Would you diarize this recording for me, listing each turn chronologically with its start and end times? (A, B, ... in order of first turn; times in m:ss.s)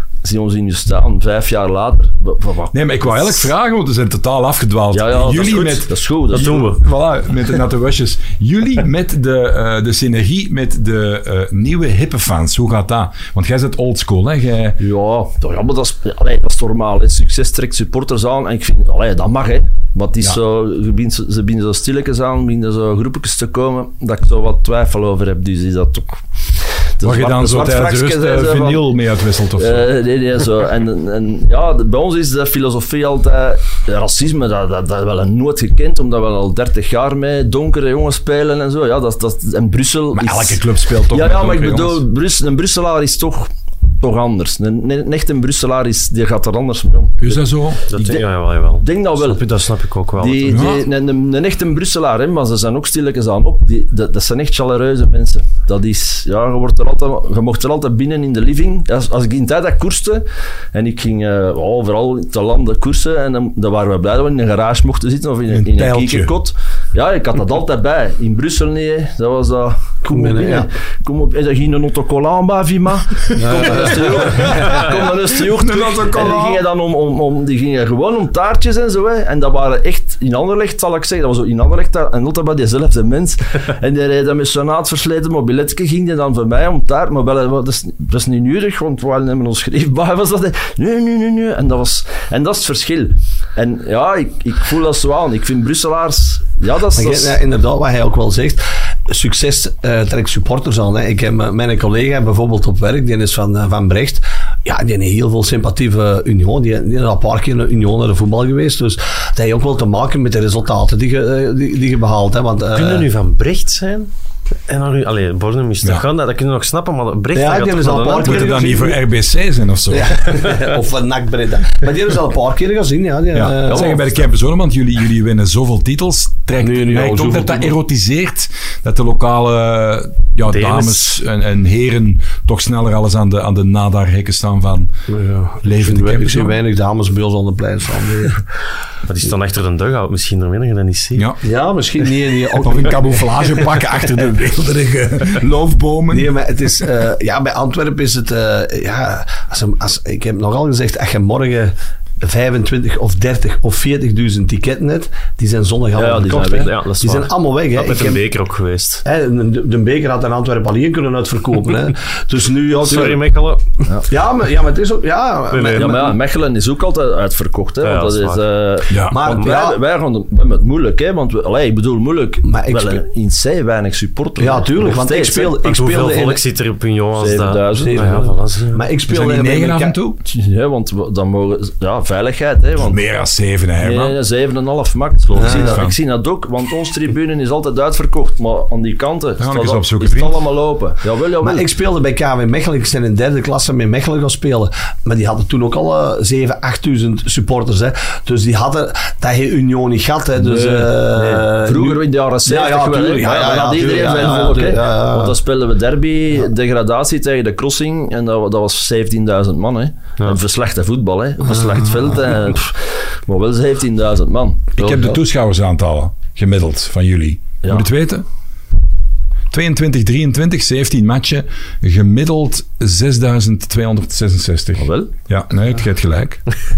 0:00.2-0:03.5 A
0:02.7-0:14.8 B
0:04.9-0:06.8 A
0:06.3-0:06.8 C
0:14.8-0:26.2 A
0:27.0-0:28.9 A
0:27.0-0:29.9 B
0:29.6-0:47.4 A
0:40.1-0:42.0 B
0:47.2-0:47.8 B
0:47.9-0:50.7 C
0:47.9-0:48.3 A
0:48.8-0:49.4 A
0:50.2-1:37.4 A
0:50.5-0:50.9 B
1:05.5-1:06.3 B
1:10.0-1:10.7 D
1:13.3-1:14.8 D
1:15.5-1:16.6 B
1:36.9-1:53.1 D
1:52.8-1:54.1 C
1:54.7-1:58.6 C
1:57.4-1:59.0 D
1:58.2-2:00.4 B
1:59.9-2:04.0 D
2:03.3-2:14.9 B
2:03.7-2:04.0 A
2:06.6-2:07.7 D
2:10.5-2:11.2 C
2:15.1-2:18.4 D
2:15.6-2:16.6 B
2:19.0-2:21.3 C
2:21.2-2:21.4 B
2:21.4-2:24.0 D
2:22.6-2:26.3 B
2:26.1-2:38.2 D
2:35.9-2:36.8 A
2:36.4-2:39.0 C
2:39.0-2:43.2 D
2:42.8-2:43.9 C
2:44.1-2:46.2 D
2:45.5-2:46.1 C
2:45.8-2:55.6 A
2:47.8-2:48.4 C
2:48.9-2:49.2 B
2:49.1-2:49.8 D
2:52.4-2:53.0 D
2:54.4-2:56.4 D
2:55.6-2:58.8 C
2:57.2-2:58.3 A
2:57.7-3:00.0 D
2:59.1-3:00.2 B
3:00.3-3:03.0 A
3:02.8-3:04.2 B
3:03.8-3:11.7 A
3:05.4-3:06.0 B
3:05.4-3:05.8 D
3:09.4-3:10.4 B
3:11.4-3:25.4 D
3:20.4-3:34.7 A
3:31.5-3:31.8 D
3:34.8-3:38.2 B
3:34.8-3:35.2 D
3:39.5-3:46.4 B
3:44.8-3:45.1 A